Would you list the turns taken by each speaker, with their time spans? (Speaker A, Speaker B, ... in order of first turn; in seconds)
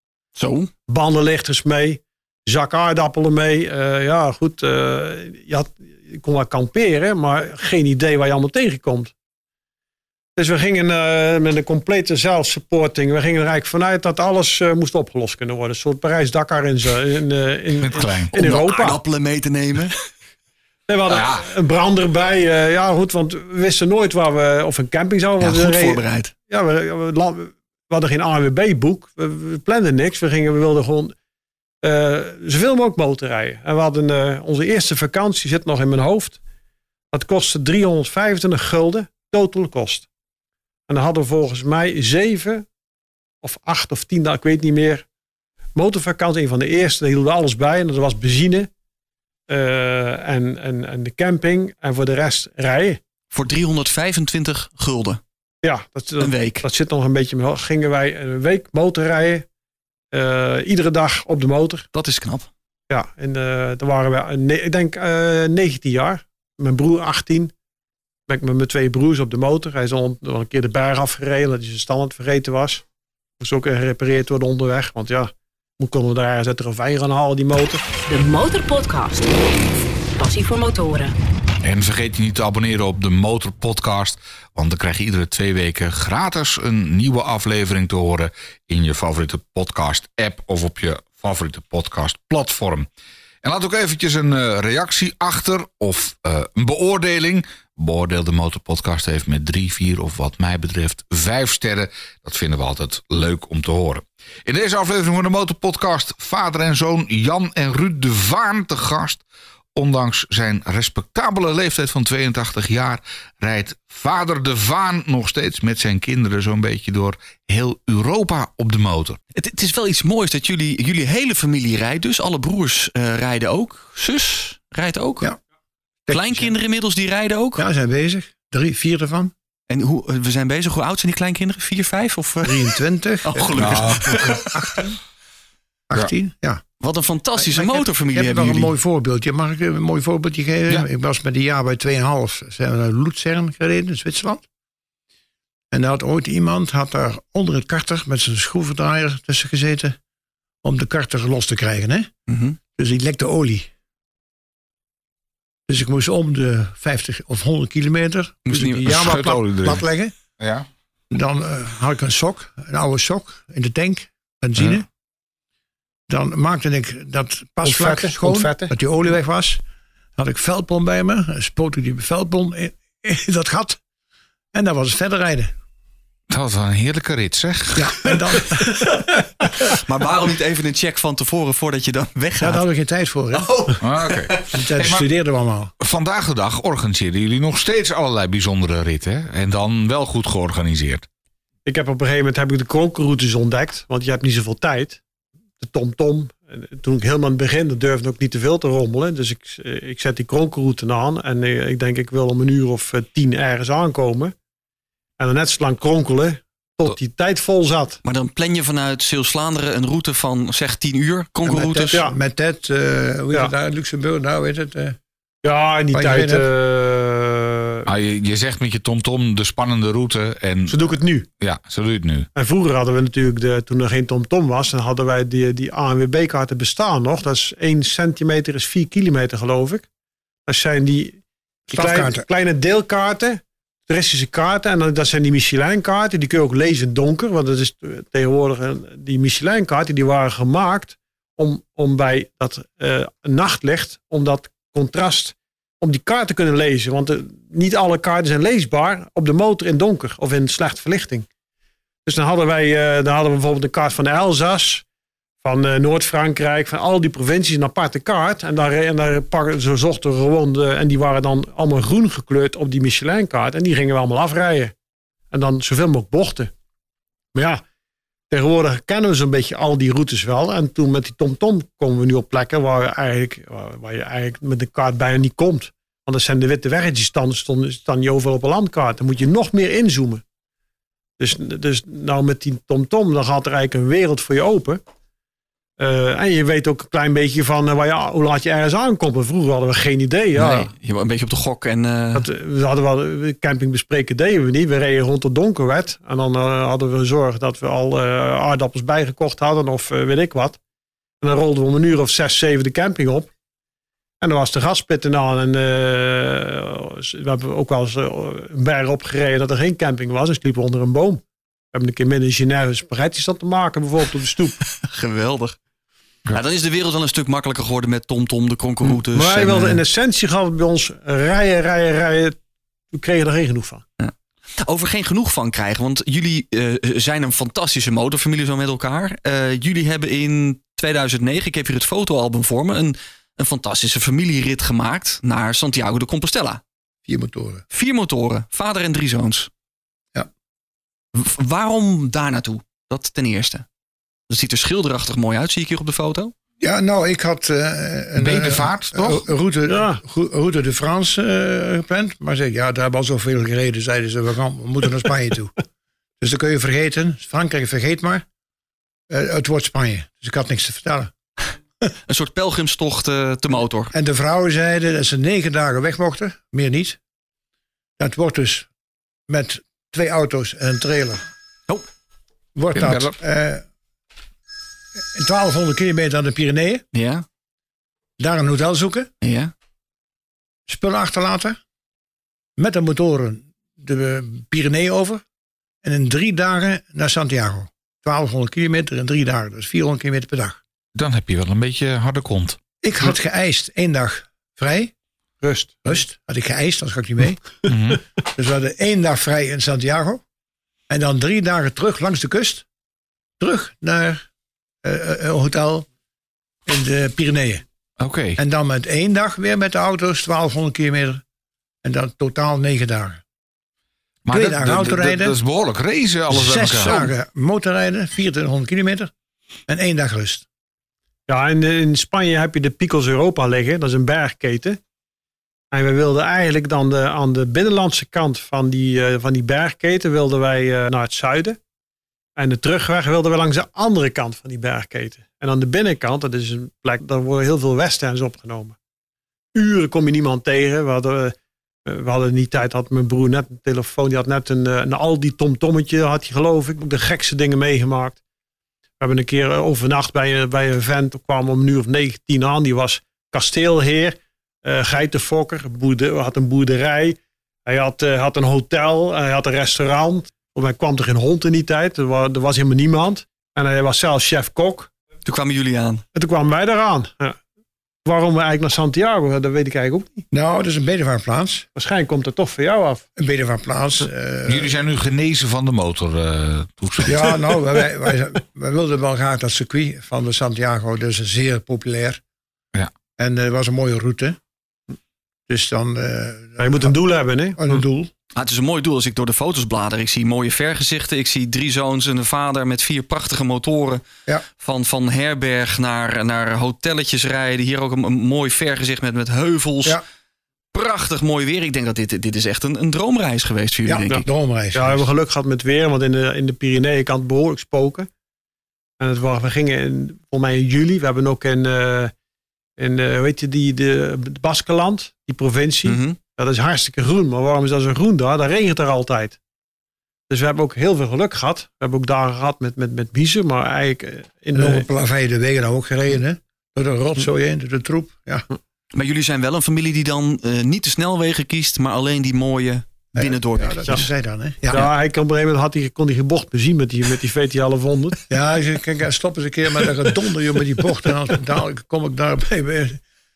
Speaker A: 0.3-0.7, 18.3-19.9, 25.4-26.3, 53.3-55.2, 56.2-56.6, 61.9-62.5, 119.3-125.3, 126.1-127.7, 129.7-134.8, 136.8-138.7, 152.3-152.6, 158.4-158.9, 179.6-182.6, 183.3-184.4, 208.0-212.0, 290.3-292.2, 314.8-315.6, 316.3-319.8, 324.0-336.6, 337.7-339.5, 341.1-343.6, 344.3-346.3, 362.1-363.9, 376.9-377.2, 379.2-379.5, 465.2-466.0, 488.3-494.0, 494.6-500.0, 500.7-504.2, 515.8-516.2, 528.9-533.9
Speaker B: 0.9-9.1, 10.3-19.0, 20.9-31.1, 31.8-36.4, 37.1-40.1, 40.9-42.6, 43.4-45.0, 45.7-48.7, 49.5-53.0, 55.6-59.5, 60.1-61.9, 62.9-67.5, 68.3-72.8, 73.4-77.8, 167.6-168.7, 191.6-195.0, 195.6-204.3, 205.2-208.0, 215.4-217.8, 220.7-221.3, 222.3-229.9, 230.5-251.3, 252.1-254.8, 255.4-264.7, 265.3-266.5, 267.3-267.6, 268.3-280.2, 281.2-284.8, 285.8-290.7, 292.1-300.6, 301.2-303.3, 304.2-311.2, 311.7-314.6, 318.9-322.4, 322.9-323.8, 349.7-350.0, 395.4-395.9, 421.3-424.8, 425.7-431.6, 432.4-438.8, 439.5-448.2, 449.0-464.9, 466.1-467.4, 468.0-470.2, 471.8-473.0, 486.6-487.6, 504.1-508.1, 509.0-512.1, 512.8-519.4, 520.3-524.9, 534.7-538.3
Speaker C: 17.8-18.3, 21.1-21.4, 81.6-92.9, 93.4-109.2, 109.7-119.2, 133.6-134.3, 158.8-159.8, 160.4-160.7, 176.3-178.1, 183.8-185.1, 185.8-191.1, 217.8-220.8, 221.4-222.3, 348.2-349.3, 372.7-373.1, 390.9-392.6, 397.6-398.0, 408.0-408.4, 414.2-417.1, 474.5-477.5
Speaker D: 78.1-81.2
Speaker E: 126.1-126.5, 127.6-129.3, 132.4-135.0, 135.9-136.6, 137.3-144.4, 145.7-150.0, 150.6-152.1, 152.8-153.7, 155.7-160.2, 161.1-164.9, 166.1-169.6, 170.2-173.8, 174.5-175.5, 177.7-179.1, 182.4-183.5, 184.5-185.7, 211.4-215.0, 215.9-216.4, 231.7-232.2, 337.1-337.6, 346.6-355.5, 356.2-358.2, 359.1-361.1, 363.9-367.0, 368.0-368.7, 369.3-371.2, 372.5-373.6, 375.0-376.8, 378.2-379.1, 380.7-381.6, 382.6-385.2, 385.8-390.6, 392.8-394.9, 395.8-397.5, 398.2-400.2, 400.9-402.6, 403.4-404.2, 404.8-405.9, 406.6-407.6, 408.4-411.2, 411.8-413.2, 414.3-415.3, 416.3-419.1, 419.7-420.4, 470.3-471.6, 473.1-474.7, 477.0-482.2, 483.2-484.4, 485.5-486.9, 487.6-488.1, 503.9-505.0, 524.5-528.5, 533.1-534.9, 538.3-543.0